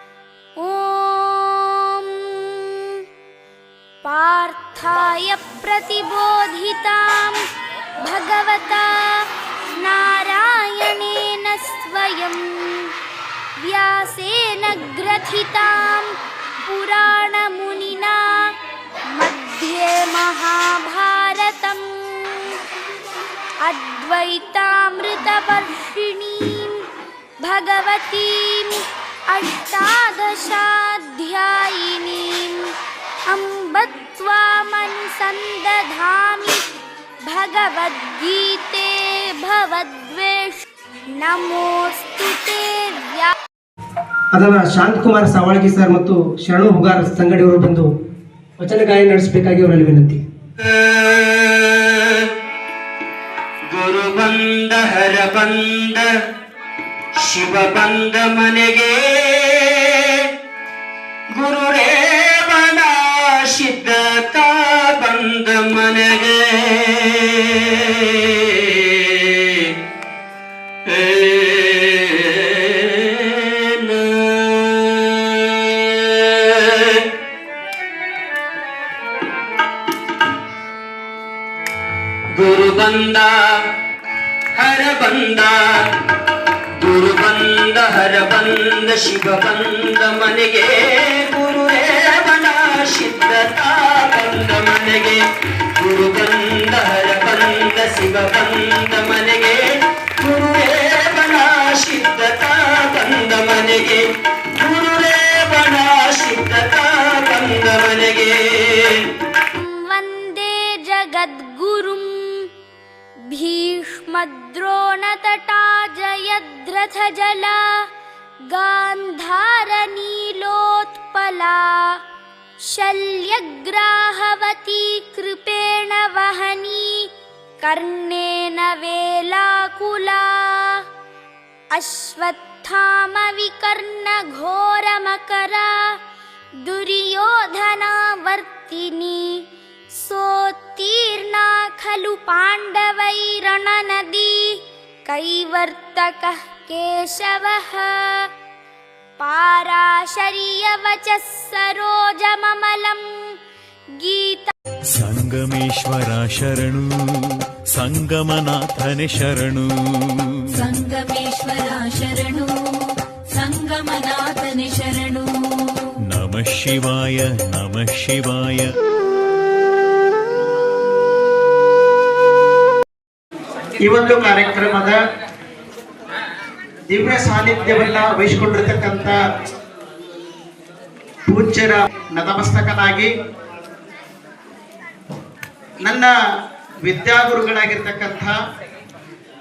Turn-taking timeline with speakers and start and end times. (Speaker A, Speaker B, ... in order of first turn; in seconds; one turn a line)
Speaker A: 0.6-2.8
Speaker A: 4.0-7.4
Speaker A: 8.0-9.2
Speaker A: 9.8-12.9
Speaker A: 13.6-16.1
Speaker A: 16.6-18.5
Speaker A: 19.1-22.6
Speaker A: 23.6-26.8
Speaker A: 27.4-32.7
Speaker A: 33.2-36.6
Speaker A: 37.2-40.6
Speaker A: 41.1-43.3
Speaker B: 44.3-47.9
Speaker B: 48.6-50.2
Speaker C: 50.8-51.4
Speaker C: 53.7-56.0
Speaker C: 57.3-59.5
Speaker C: 61.4-66.6
Speaker C: 71.0-71.8
Speaker C: 73.9-74.6
Speaker C: 82.4-83.3
Speaker C: 84.5-85.5
Speaker C: 86.8-95.2
Speaker C: 95.8-99.6
Speaker C: 100.2-104.0
Speaker C: 104.6-108.8
Speaker A: 109.5-112.5
Speaker A: 113.3-117.7
Speaker A: 118.5-122.0
Speaker A: 122.6-127.1
Speaker A: 127.6-130.8
Speaker A: 131.7-135.9
Speaker A: 136.6-148.3
Speaker A: 149.2-153.1
Speaker A: 154.0-154.5
Speaker D: 154.9-160.5
Speaker E: 160.7-162.5
Speaker E: 163.4-165.2
Speaker D: 166.1-168.7
Speaker F: 173.8-175.0
Speaker F: 176.9-179.2
Speaker F: 181.3-183.1
Speaker F: 185.8-186.1
Speaker F: 186.8-188.3